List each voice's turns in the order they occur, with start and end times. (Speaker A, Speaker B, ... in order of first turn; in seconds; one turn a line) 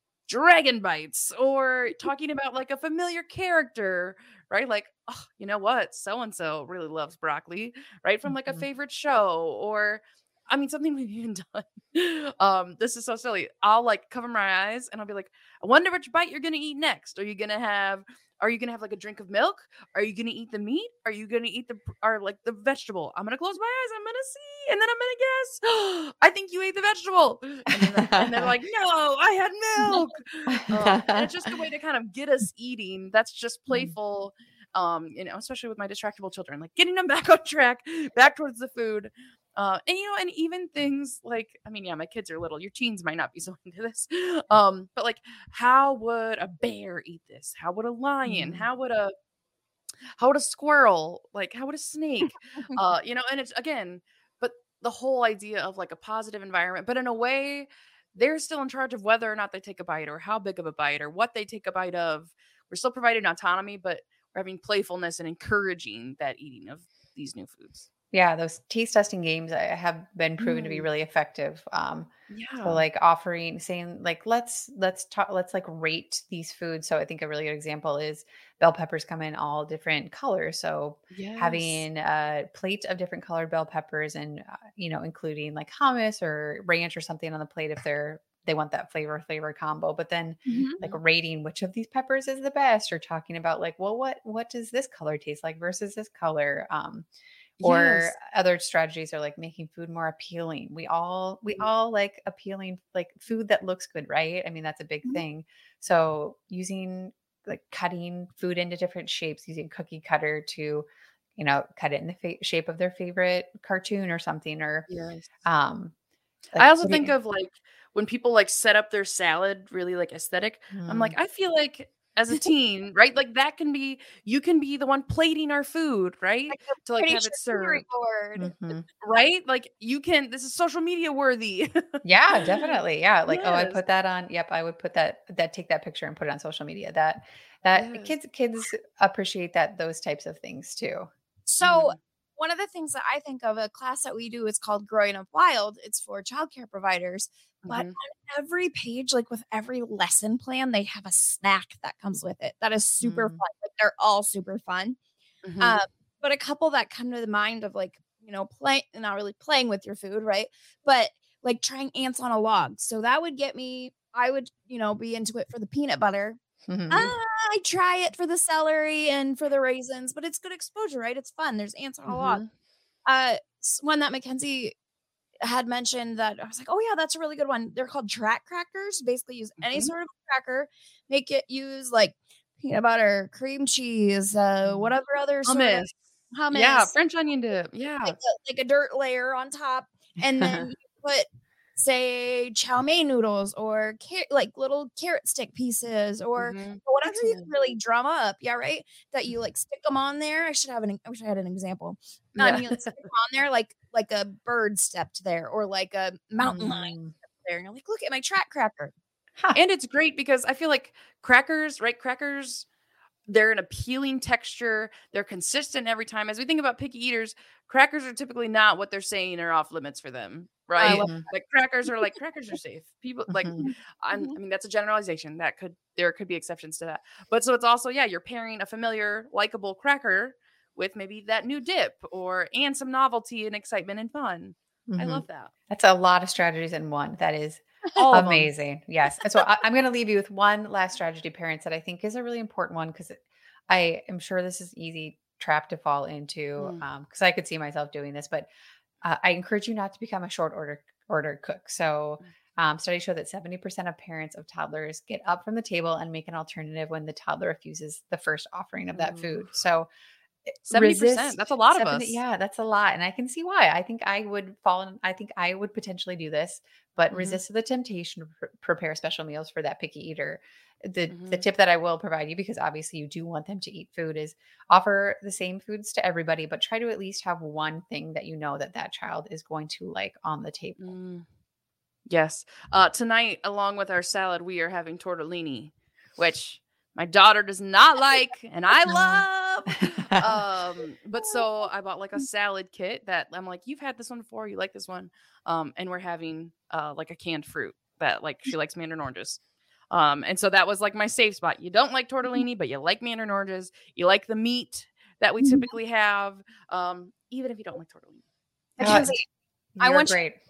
Speaker A: 0.3-49.1
Speaker B: 27.8-28.5
Speaker B: 30.5-31.5
Speaker B: 48.3-48.7
Speaker A: 50.2-67.9
Speaker B: 68.1-97.1
Speaker A: 70.4-70.9
Speaker A: 72.3-72.8
Speaker A: 81.1-81.8
Speaker C: 90.5-90.8
Speaker A: 97.6-98.1
Speaker B: 97.6-114.9
Speaker A: 114.9-115.3
Speaker B: 115.4-115.9
Speaker B: 116.5-117.1
Speaker A: 116.6-127.8
Speaker B: 120.7-121.2
Speaker C: 126.5-128.5
Speaker B: 128.4-128.9
Speaker A: 129.0-132.7
Speaker B: 132.0-141.1
Speaker A: 133.3-133.8
Speaker A: 137.7-138.1
Speaker C: 141.5-155.0
Speaker A: 141.6-141.9
Speaker A: 147.6-148.0
Speaker B: 153.0-153.4
Speaker A: 155.4-155.8
Speaker C: 155.6-166.4
Speaker B: 166.7-167.1
Speaker C: 166.9-172.4
Speaker A: 172.1-172.5
Speaker C: 173.1-174.7
Speaker C: 175.4-186.9
Speaker A: 179.6-179.9
Speaker B: 184.7-184.9
Speaker A: 185.5-185.9
Speaker A: 186.5-188.2
Speaker C: 188.1-208.9
Speaker B: 190.4-190.7
Speaker A: 196.4-197.5
Speaker B: 206.4-207.1
Speaker A: 209.5-212.7
Speaker A: 213.3-235.5
Speaker B: 220.8-221.3
Speaker C: 220.8-221.1
Speaker B: 223.3-223.6
Speaker C: 223.6-224.4
Speaker B: 234.9-248.5
Speaker A: 238.0-238.5
Speaker A: 246.6-246.8
Speaker B: 249.0-259.9
Speaker A: 258.9-259.2
Speaker B: 260.5-280.9
Speaker A: 260.7-262.2
Speaker A: 267.1-267.4
Speaker A: 271.1-271.4
Speaker A: 280.8-281.3
Speaker A: 282.1-299.4
Speaker B: 288.9-289.2
Speaker B: 289.8-290.4
Speaker A: 299.9-308.2
Speaker C: 305.4-305.7
Speaker C: 308.8-309.2
Speaker B: 308.8-309.2
Speaker B: 309.8-310.4
Speaker C: 309.8-310.2